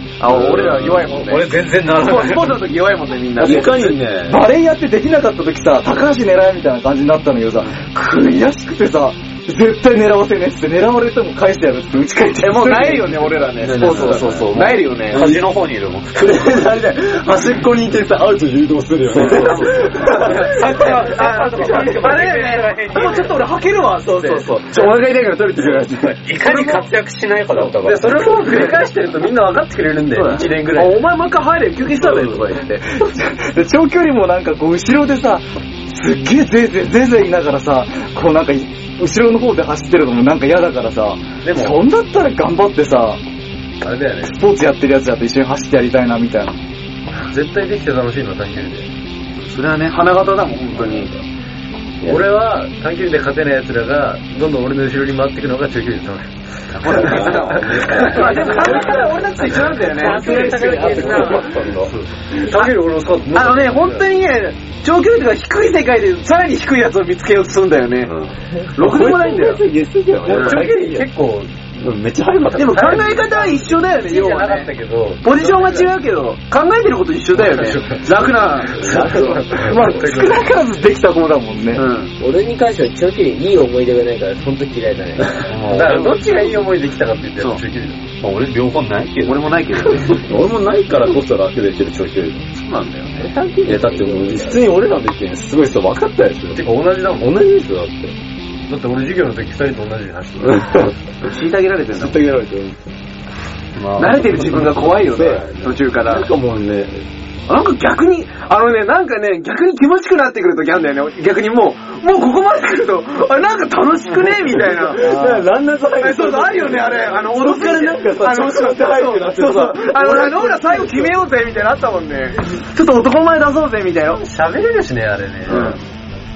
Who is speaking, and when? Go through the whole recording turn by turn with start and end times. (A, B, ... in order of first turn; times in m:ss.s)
0:00.2-0:04.0 A
0:00.3-0:01.0 B
0:00.5-0:02.7 C
0:03.4-0:04.4 B
0:04.2-0:13.3 D
0:12.4-0:15.2 A
0:13.6-0:15.4 B
0:14.6-0:16.6 C
0:16.2-0:20.5 B
0:19.1-0:26.9 A
0:19.2-0:23.5 C
0:24.0-0:28.3 C
0:27.7-0:31.0 E
0:28.2-0:28.8 A
0:30.1-0:32.9 A
0:31.9-0:32.5 C
0:33.0-0:43.2 D
0:41.4-0:41.8 E
0:43.8-0:44.4 E
0:44.2-0:46.6 D
0:47.2-0:48.9 E
0:49.4-0:51.1 A
0:52.0-1:00.1 E
0:56.8-1:01.7 A
0:56.8-0:58.6 B
1:00.0-1:01.5 F
1:00.0-1:01.9 C
1:01.7-1:04.1 E
1:02.4-1:02.7 A
1:03.3-1:08.1 A
1:08.0-1:11.1 B
1:08.7-1:09.7 A
1:10.2-1:10.7 A
1:10.2-1:11.9 E
1:11.8-1:13.2 B
1:12.5-1:14.7 A
1:12.7-1:15.9 E
1:15.2-1:19.4 A
1:17.3-1:20.4 E
1:18.8-1:19.6 B
1:19.6-1:21.8 D
1:21.7-1:22.1 A
1:22.2-1:25.3 F
1:25.4-1:26.3 C
1:25.7-1:28.1 E
1:28.2-1:30.0 C
1:29.2-1:30.3 A
1:30.1-1:32.5 B
1:32.6-1:33.3 A
1:33.2-1:34.6 F
1:33.6-1:38.1 B
1:36.6-1:37.3 E
1:38.7-1:40.9 E
1:40.4-1:40.9 B
1:41.2-1:42.2 A
1:41.9-1:42.8 B
1:43.8-1:44.8 C
1:44.0-1:46.3 A
1:44.8-1:47.0 B
1:47.5-1:55.3 A
1:54.1-1:54.4 C
1:54.7-2:01.2 B
1:55.0-1:55.5 D
1:56.0-2:04.2 A
2:04.1-2:05.8 E
2:05.4-2:05.8 A